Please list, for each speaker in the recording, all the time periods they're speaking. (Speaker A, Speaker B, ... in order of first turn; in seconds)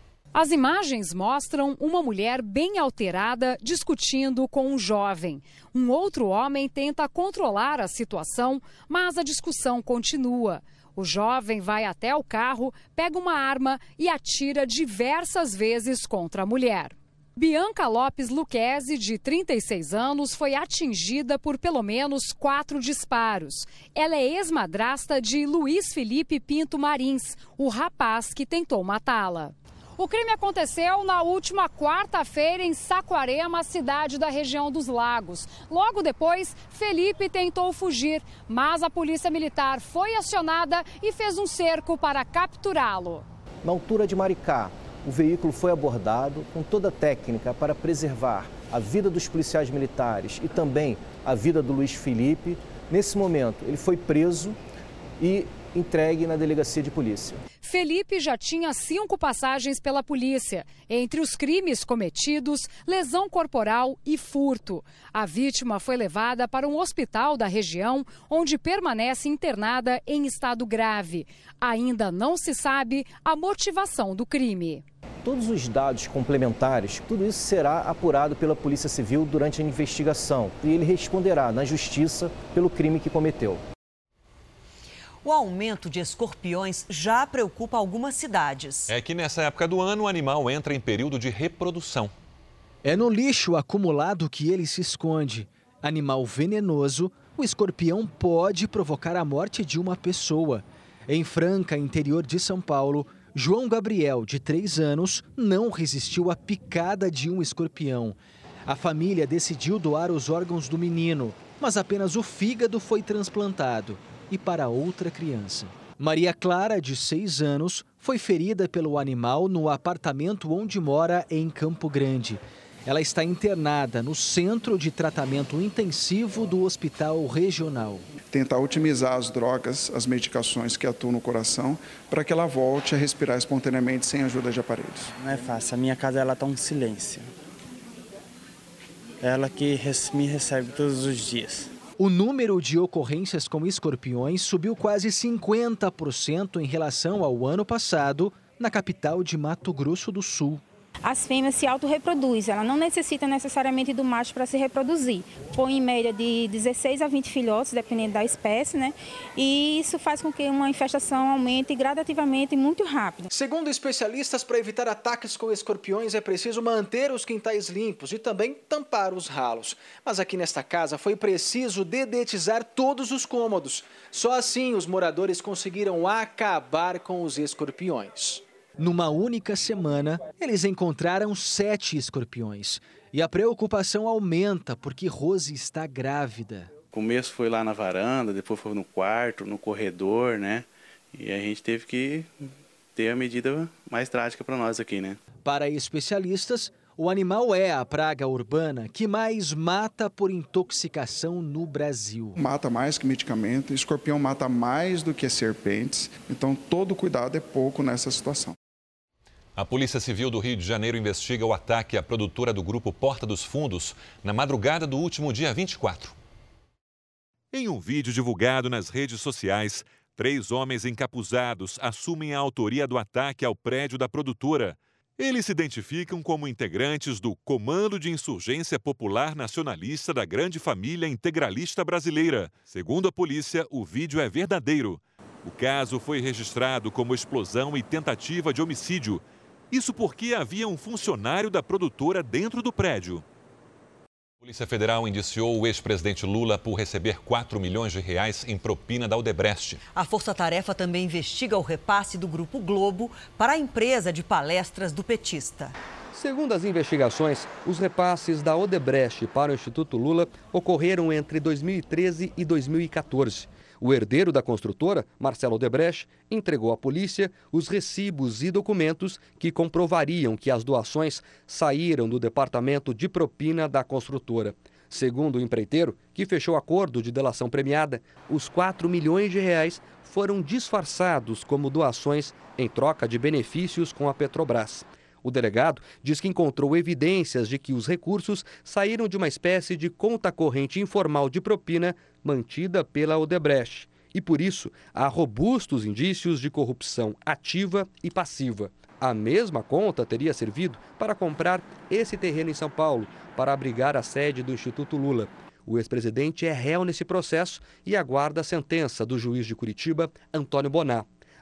Speaker A: 0.3-43.2, 57.6-74.8
Speaker B: 43.6-54.6, 55.2-57.4, 75.2-83.6
Speaker C: 85.2-88.9, 249.9-255.7
Speaker D: 88.9-92.1, 209.6-216.1, 217.5-243.2, 244.4-249.8
Speaker E: 92.8-128.0, 142.0-150.6, 163.3-186.7, 195.4-202.3
Speaker F: 128.3-135.1, 202.3-208.6
Speaker G: 135.2-137.3, 139.2-141.7
Speaker H: 151.0-163.3
Speaker I: 186.9-195.2
Speaker J: 256.1-311.1